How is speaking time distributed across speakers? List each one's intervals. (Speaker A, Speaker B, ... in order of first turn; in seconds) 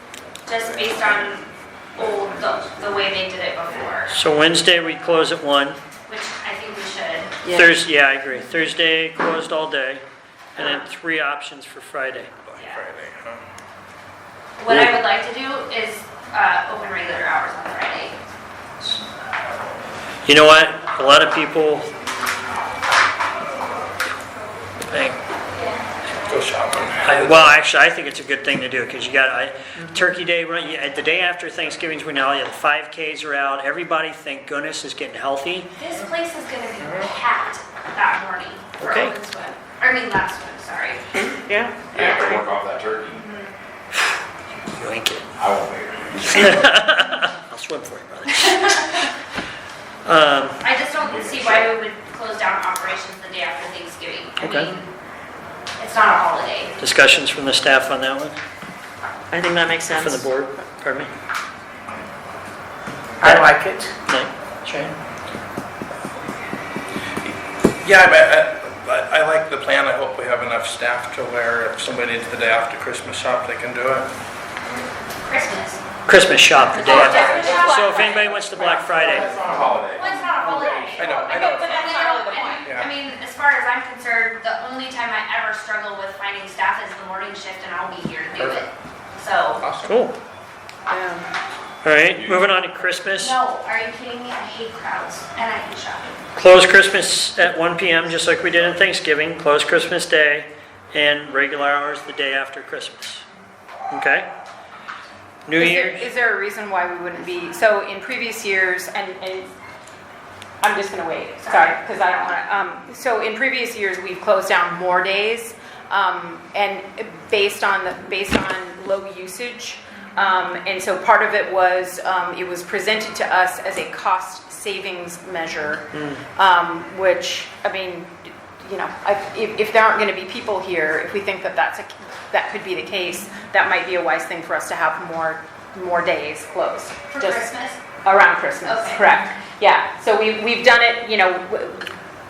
Speaker A: 0.5-4.2, 6.0-7.5, 10.6-10.8, 12.6-12.8, 14.6-18.2, 35.8-41.4, 41.9-42.4, 43.2-43.5, 50.6-54.9, 55.8-56.7, 75.2-75.8, 76.7-78.7, 79.9-89.6, 93.1-96.2, 111.4-111.8, 137.1-137.8, 138.7-139.2
Speaker B: 0.5-3.1, 41.9-43.3, 45.4-46.5, 51.0-51.8, 79.0-80.9, 92.1-92.7
Speaker C: 4.1-5.8, 7.5-10.0, 10.6-12.3, 20.3-21.9, 24.9-25.2, 27.0-35.7, 38.8-39.2, 44.7-45.3, 46.3-49.0, 50.0-50.6, 54.4-54.7, 56.8-58.4, 59.9-61.1, 63.2-64.9, 76.1-79.3, 89.9-90.2, 91.8-93.4, 96.4-103.2, 103.9-104.3, 105.5-106.0
Speaker D: 12.4-13.4, 26.2-27.6, 67.2-74.1, 77.1-77.6, 81.0-82.0, 82.7-82.9, 88.4-88.7, 89.6-90.0
Speaker E: 41.5-41.9, 59.3-60.3, 63.2-63.9
Speaker F: 77.0-78.1, 80.7-82.7, 105.6-109.5, 110.6-137.5, 138.0-141.9